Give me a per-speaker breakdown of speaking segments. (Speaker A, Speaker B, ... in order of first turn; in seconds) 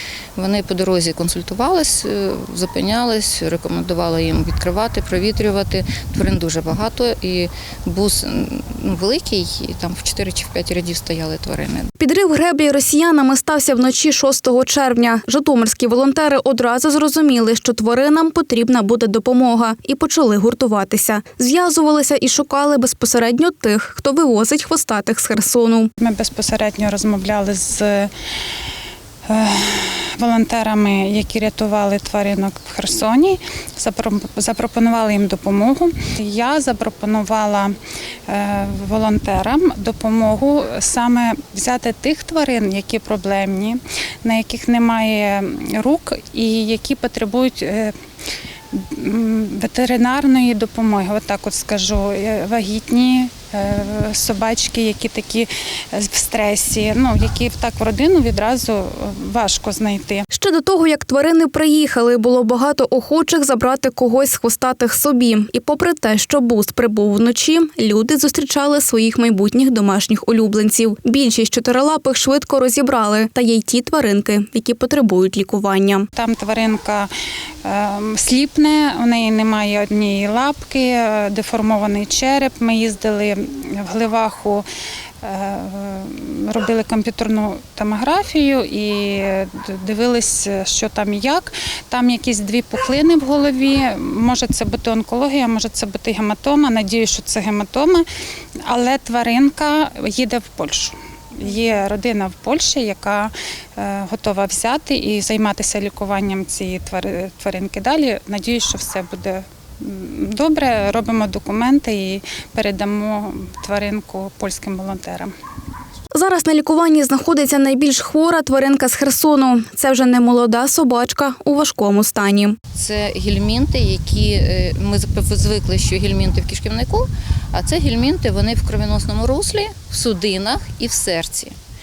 Speaker A: 0.3-11.9, 122.7-131.5
Speaker B: 12.0-25.9, 60.3-76.1, 116.1-122.6
Speaker C: 26.0-28.1, 29.3-48.0, 48.7-60.2, 76.1-77.1, 77.6-84.7, 85.2-98.0, 98.6-115.3